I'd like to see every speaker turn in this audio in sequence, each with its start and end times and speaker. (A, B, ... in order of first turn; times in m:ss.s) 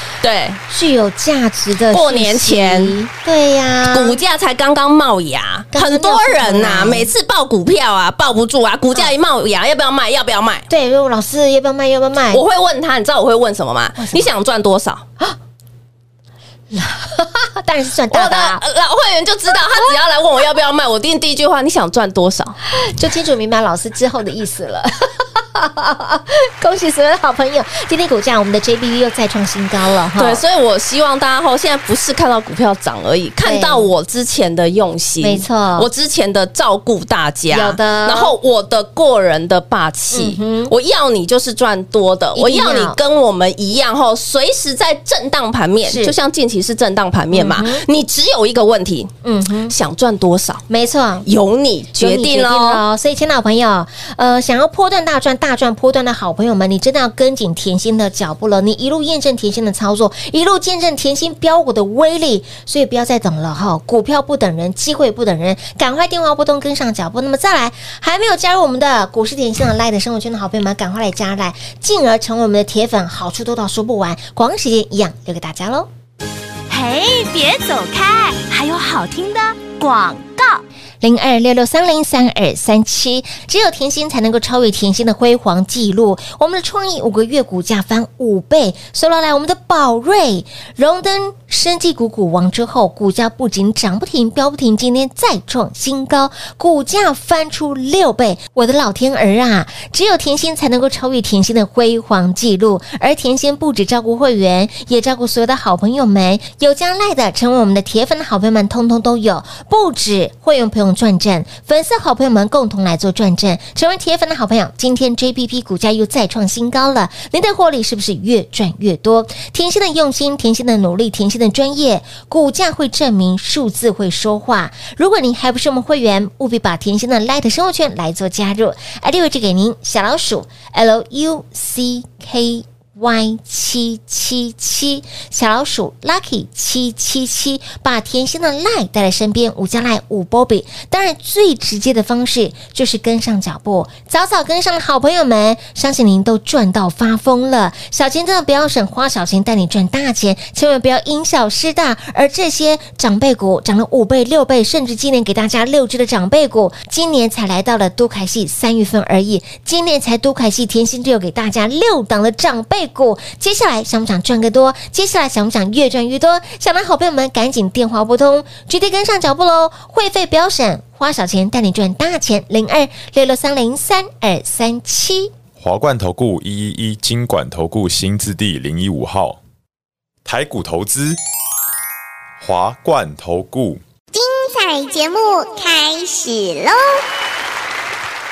0:00.2-0:00.6 A
0:00.7-0:04.2 B
0:01.9-0:03.0 A
0:03.9-0:10.7 A
0:05.7-0:07.1 B
0:10.7-0:12.4 B
0:12.3-0:15.0 A
0:14.0-0:14.3 B
0:16.7-0:18.6 B
0:18.1-0:22.6 A
0:22.7-0:30.4 B
0:30.2-0:49.1 A
0:33.4-0:33.9 B
0:35.2-0:35.9 B
0:37.5-0:38.3 B
0:40.1-0:40.7 B
0:42.3-0:43.0 B
0:45.8-0:46.1 B
0:47.3-0:47.8 B
0:49.2-0:49.7 B
0:49.7-0:50.6 A
0:50.7-0:51.3 B
0:51.2-0:52.8 A
0:52.0-1:15.9 B
1:16.7-1:20.6 C
1:21.0-2:55.3 B
2:55.6-2:59.4 D
3:00.2-3:01.2 D
3:02.4-3:03.8 D
3:04.1-3:07.0 E